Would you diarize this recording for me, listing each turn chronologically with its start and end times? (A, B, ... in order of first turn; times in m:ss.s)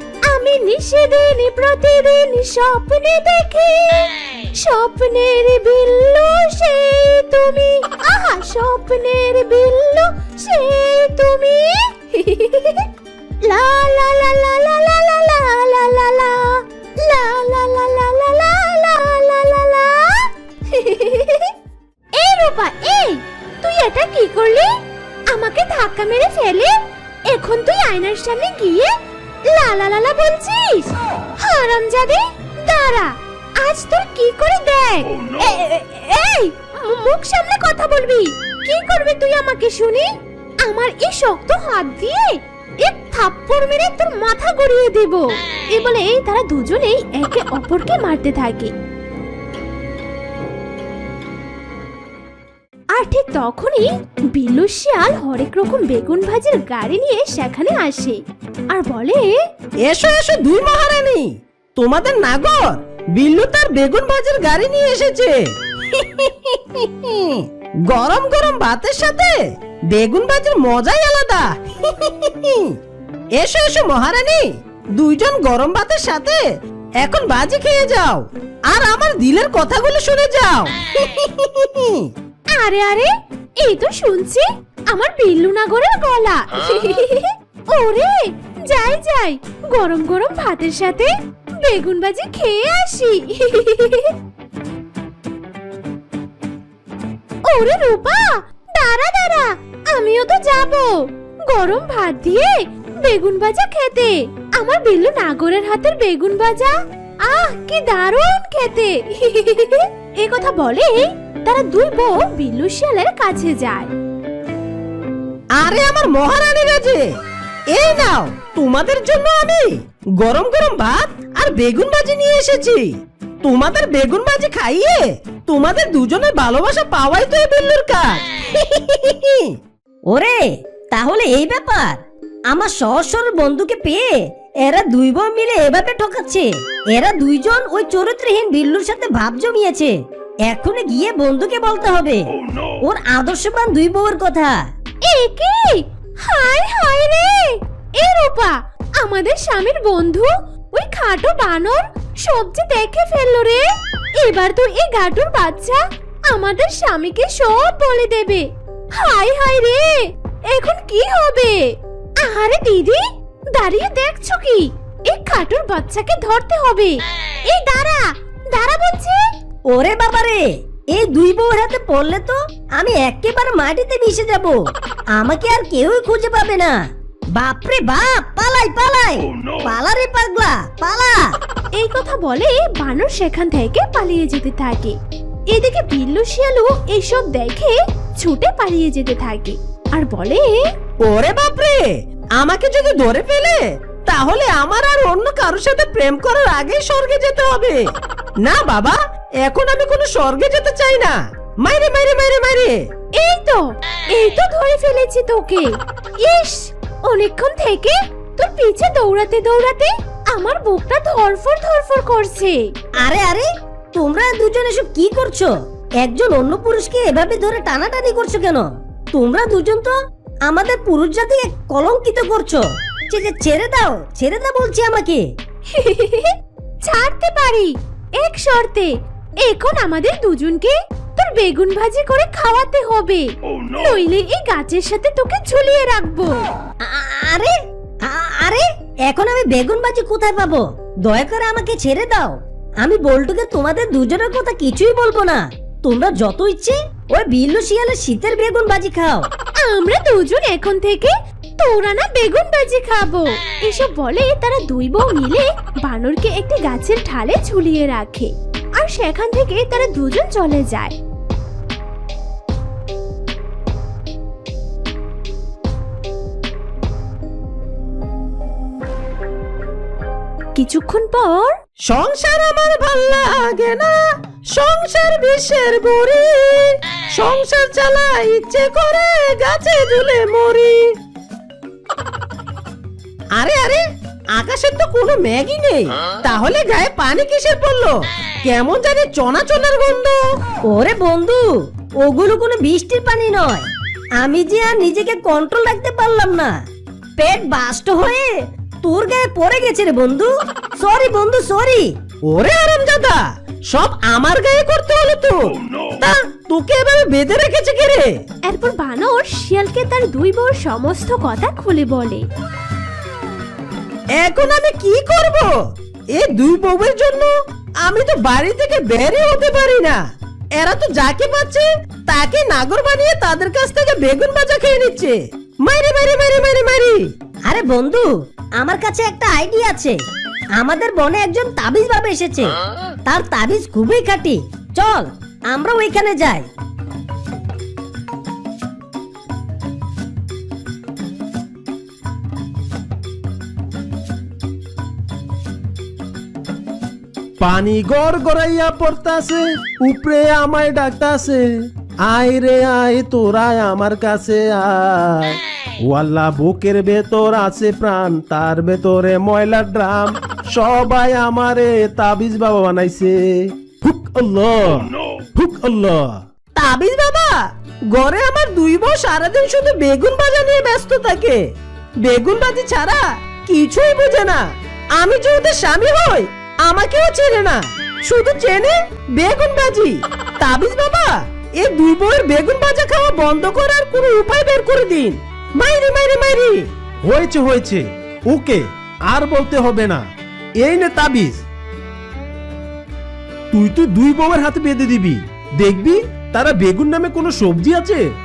0:00.3-0:12.9 A
0:13.4-0:21.5 A
0:22.2-0:24.7 A
0:25.3-0:28.9 A
0:29.5-0:40.1 A
0:40.6-0:48.7 A
0:52.9-0:58.2 A
0:58.7-0:59.3 A
0:59.8-1:05.4 B
1:05.9-1:12.8 B
1:13.4-1:16.4 B
1:17.0-1:22.1 B
1:22.6-1:31.1 A
1:31.6-1:34.1 A
1:37.4-1:41.0 A
1:41.5-1:53.9 A
1:55.6-1:57.1 B
1:57.7-2:08.2 B
2:08.8-2:09.5 B
2:10.1-2:19.9 C
2:20.4-2:22.2 C
2:22.8-2:24.6 C
2:25.0-2:33.6 A
2:34.2-2:38.4 A
2:39.0-2:41.6 A
2:42.2-2:43.0 A
2:43.5-2:49.2 A
2:49.7-2:54.6 C
2:55.1-2:56.8 C
2:57.3-3:01.3 C
3:01.8-3:04.9 A
3:05.5-3:10.6 A
3:11.0-3:17.8 B
3:18.4-3:22.8 B
3:23.1-3:32.6 A
3:33.0-3:39.9 C
3:40.5-3:45.2 C
3:45.7-3:48.9 A
3:49.4-3:56.3 A
3:56.8-4:09.3 C
4:09.6-4:20.9 A
4:30.6-4:31.5 A
4:31.9-4:34.0 B
4:34.5-4:40.8 B
4:43.4-4:43.8 B
4:44.3-4:50.2 B
4:50.7-4:51.5 C
4:52.0-4:53.7 C
4:54.2-4:56.5 C
4:57.2-4:58.3 C
4:58.8-5:01.9 C
5:02.3-5:08.1 B
5:08.5-5:12.2 A
5:14.2-5:15.5 B
5:16.1-5:20.0 B
5:20.6-5:27.1 B
5:27.4-5:30.0 C
5:30.6-5:36.5 C
5:47.4-5:51.4 D
5:52.0-5:55.3 D
5:55.9-6:03.3 D
6:03.8-6:06.2 D
6:06.6-6:07.4 B
6:07.9-6:11.4 B
6:12.0-6:14.4 B
6:15.0-6:26.6 B
6:27.1-6:30.0 D
6:30.6-6:31.4 D
6:33.5-6:38.0 D